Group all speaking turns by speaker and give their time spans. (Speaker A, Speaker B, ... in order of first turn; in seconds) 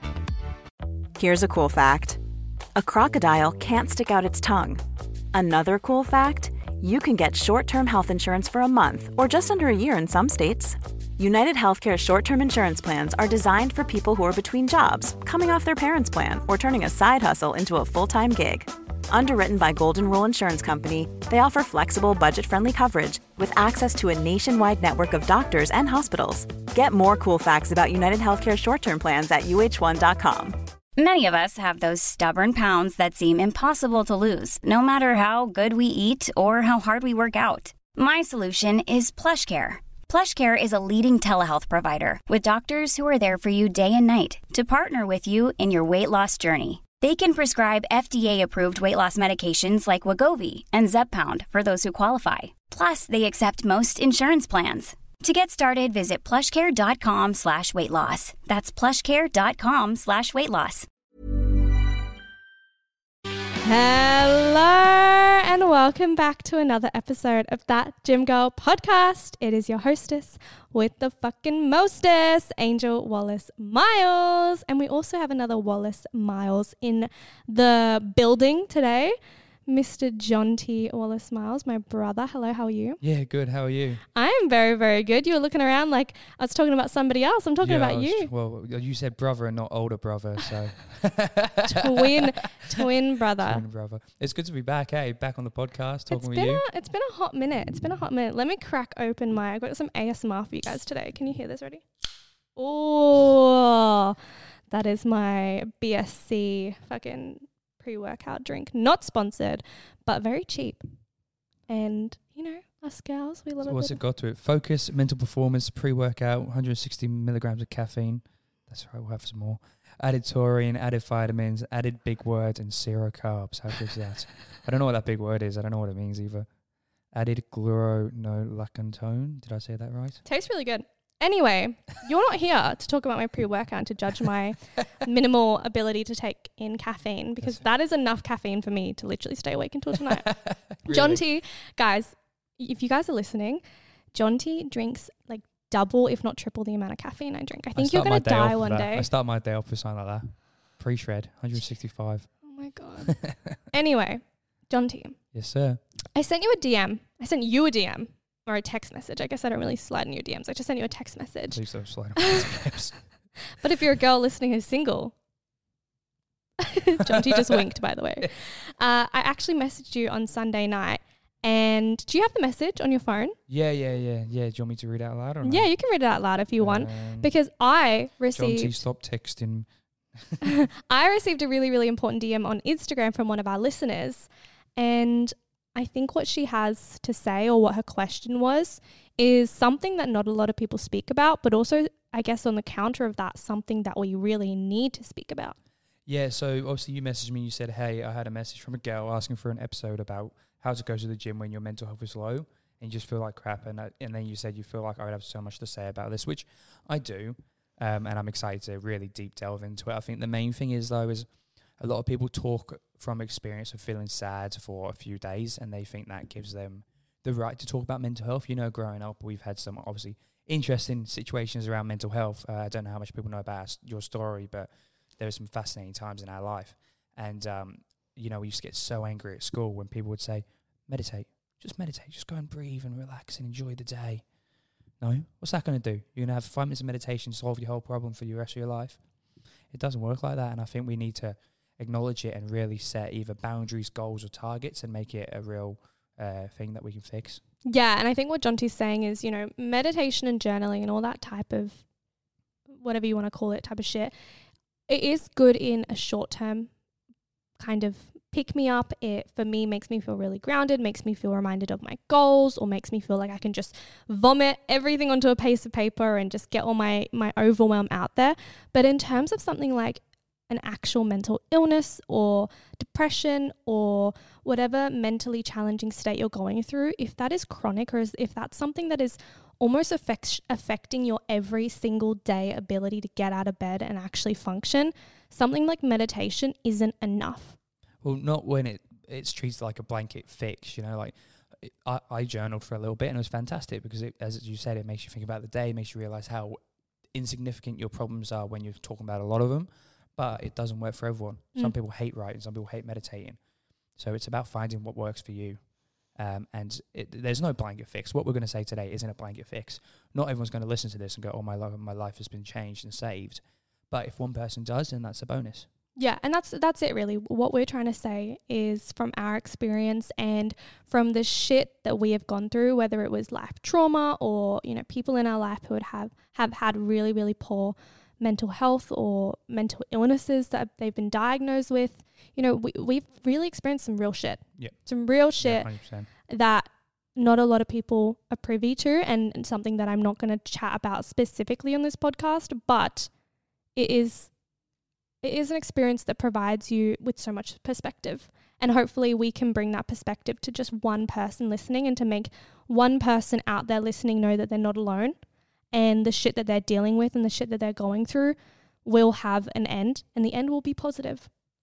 Speaker A: 1.1-2.2, 2.8-4.8, 5.3-30.6
Speaker B: 31.0-60.9
Speaker C: 63.6-79.2, 79.7-83.0, 84.1-88.3, 91.6-93.6, 96.1-101.8, 102.5-104.2, 104.7-110.8, 111.7-114.0, 130.2-140.3, 140.8-143.6, 144.1-149.1, 152.4-155.2, 156.1-161.6, 162.2-162.7, 163.4-165.1, 166.6-173.4, 175.4-178.8, 180.4-195.6, 247.7-251.8, 252.8-254.1, 254.9-256.7, 257.6-287.6, 315.9-335.7, 336.3-343.1, 343.7-344.3, 345.2-355.2, 355.7-361.3
Speaker D: 83.0-84.0, 87.6-92.8, 93.4-96.6, 113.6-126.5, 127.1-130.2, 140.1-141.2, 147.8-152.3, 153.0-153.6, 155.3-155.8, 161.5-162.9, 167.1-167.6, 173.5-175.7, 176.6-177.3, 178.3-180.5, 196.1-211.3, 211.8-234.2, 235.0-239.0, 239.7-247.4, 288.0-296.6, 297.1-303.4, 304.0-305.6, 306.1-315.7, 335.4-336.1